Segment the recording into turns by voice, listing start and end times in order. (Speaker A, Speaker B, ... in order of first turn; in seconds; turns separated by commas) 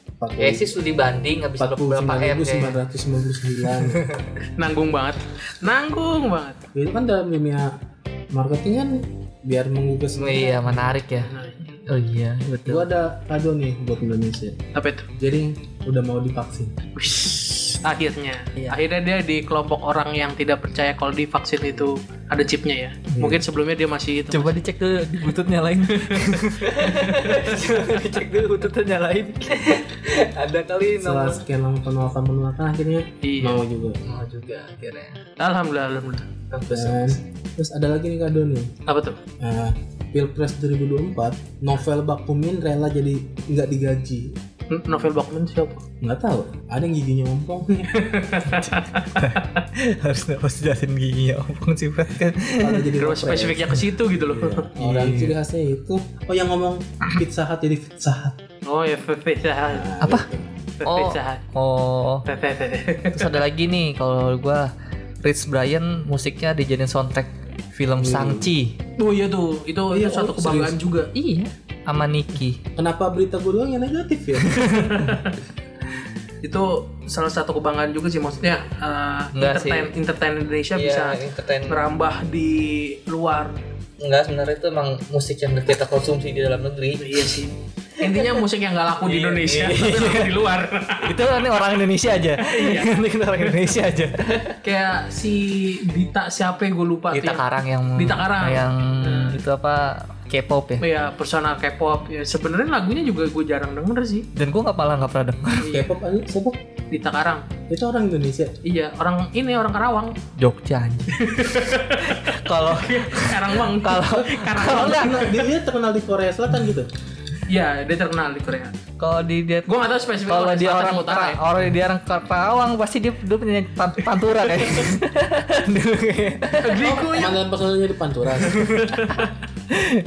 Speaker A: 0.2-0.8, Speaker B: 0.4-2.8, Speaker A: 1.6-4.1, Speaker B: 3.7-4.2, Speaker C: 4.6-6.6, Speaker A: 6.7-7.7, Speaker A: 8.3-10.9, Speaker B: 10.1-11.3, Speaker C: 11.2-11.8, Speaker B: 11.9-12.9, Speaker A: 12.7-14.6, Speaker C: 14.7-15.1, Speaker A: 15.2-16.7, Speaker C: 16.9-24.5, Speaker B: 23.1-23.4, Speaker B: 24.3-31.4, Speaker C: 25.8-27.9, Speaker A: 31.0-34.0, Speaker C: 33.2-33.6, Speaker B: 34.0-35.2, Speaker C: 35.4-36.3, Speaker B: 36.5-37.2, Speaker A: 36.7-38.7, Speaker C: 38.9-39.2, Speaker A: 39.4-44.3, Speaker C: 44.7-45.8, Speaker A: 46.0-47.9, Speaker C: 47.7-49.5, Speaker B: 48.4-52.9, Speaker A: 52.6-58.4, Speaker C: 53.0-54.7, Speaker B: 54.8-55.4, Speaker C: 58.6-59.9, Speaker A: 59.7-60.5, Speaker B: 60.0-60.3, Speaker C: 60.8-61.4, Speaker B: 60.8-62.2, Speaker C: 62.3-63.4, Speaker B: 63.1-64.7, Speaker B: 65.2-68.8, Speaker A: 68.0-68.5, Speaker C: 69.0-71.1, Speaker A: 69.9-70.8, Speaker B: 71.1-72.6, Speaker A: 72.8-75.2, Speaker C: 74.6-75.4, Speaker C: 76.4-83.5, Speaker B: 79.3-79.9, Speaker B: 80.7-81.9, Speaker B: 84.0-87.4, Speaker C: 87.0-91.2, Speaker B: 88.0-88.4, Speaker B: 89.0-90.4, Speaker B: 91.0-94.6, Speaker C: 92.4-93.7, Speaker C: 94.6-97.4, Speaker B: 97.1-100.8, Speaker C: 98.0-99.4, Speaker C: 100.8-104.3, Speaker B: 104.3-105.7, Speaker C: 105.6-105.9, Speaker A: 105.7-106.6, Speaker C: 106.9-107.4, Speaker A: 107.7-108.5, Speaker C: 108.6-110.2, Speaker B: 110.4-111.2, Speaker C: 111.1-115.5, Speaker B: 112.0-115.2, Speaker A: 114.1-116.9, Speaker C: 117.5-118.7, Speaker B: 119.0-119.7, Speaker C: 119.7-121.4, Speaker B: 120.3-127.0, Speaker C: 126.6-127.4, Speaker A: 126.8-128.6, Speaker B: 128.3-129.2, Speaker C: 128.5-129.3